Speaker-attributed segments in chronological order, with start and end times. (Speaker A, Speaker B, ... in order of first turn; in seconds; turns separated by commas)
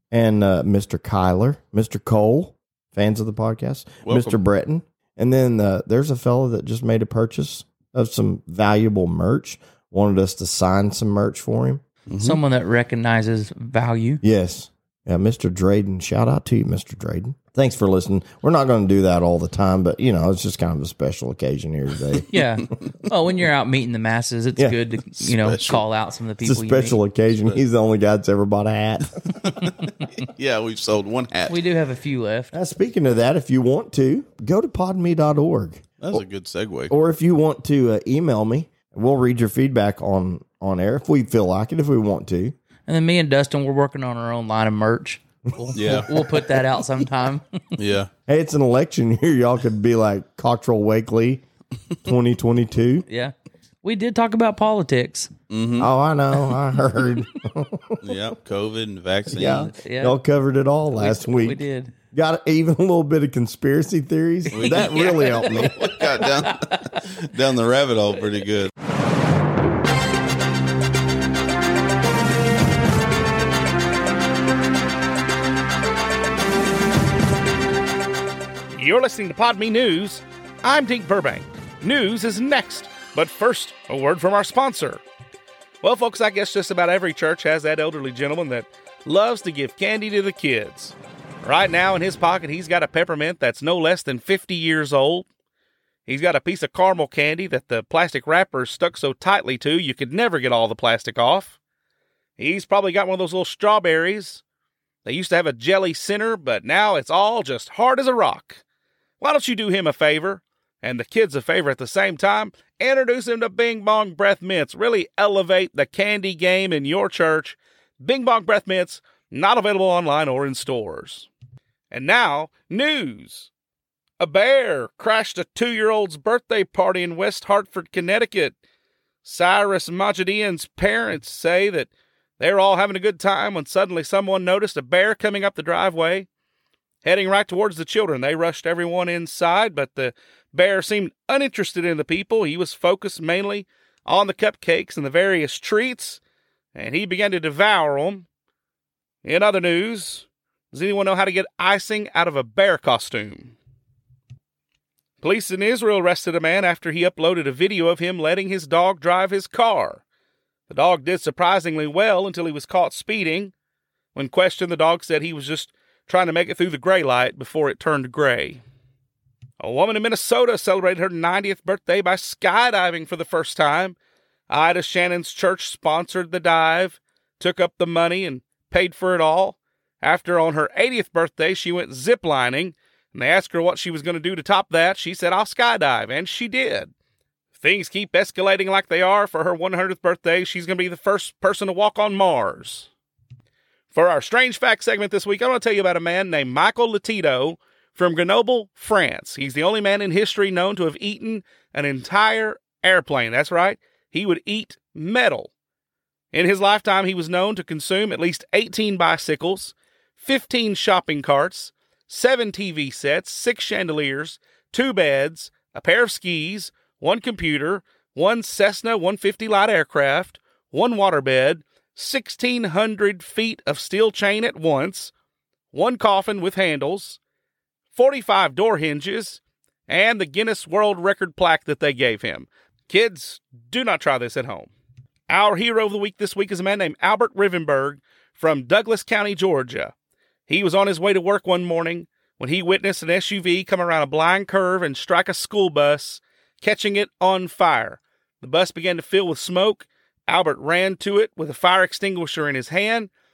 Speaker A: 0.1-11.8, Speaker B: 4.0-4.4, Speaker B: 12.1-12.4, Speaker C: 12.2-14.2, Speaker A: 14.2-22.3, Speaker C: 22.3-27.0, Speaker B: 25.2-25.8, Speaker A: 26.4-29.2, Speaker B: 29.4-31.6, Speaker C: 31.5-32.5, Speaker A: 32.5-36.2, Speaker B: 36.0-36.9, Speaker A: 36.9-42.5, Speaker C: 42.9-47.5, Speaker B: 45.7-46.1, Speaker B: 47.8-48.1, Speaker A: 48.3-51.4, Speaker A: 52.0-53.0, Speaker C: 53.1-55.3, Speaker B: 55.5-55.9, Speaker A: 55.8-58.0, Speaker B: 58.0-59.7, Speaker A: 59.3-65.7, Speaker C: 59.5-60.2, Speaker C: 61.0-61.9, Speaker C: 64.5-67.0, Speaker B: 64.5-68.7, Speaker D: 78.7-85.0, Speaker D: 85.8-95.3, Speaker D: 96.1-101.6, Speaker D: 102.4-104.4, Speaker D: 105.0-108.6, Speaker D: 109.2-121.3, Speaker D: 121.9-123.5, Speaker D: 124.2-128.6, Speaker D: 129.2-136.3, Speaker D: 137.0-146.2, Speaker D: 146.8-148.3, Speaker D: 149.2-153.6, Speaker D: 155.2-160.0, Speaker D: 160.7-163.5, Speaker D: 164.2-168.6, Speaker D: 169.6-174.0, Speaker D: 174.5-186.9, Speaker D: 187.6-192.9, Speaker D: 193.9-205.5, Speaker D: 206.3-225.1, Speaker D: 225.7-227.2, Speaker D: 227.9-234.7, Speaker D: 235.3-239.9, Speaker D: 240.5-253.1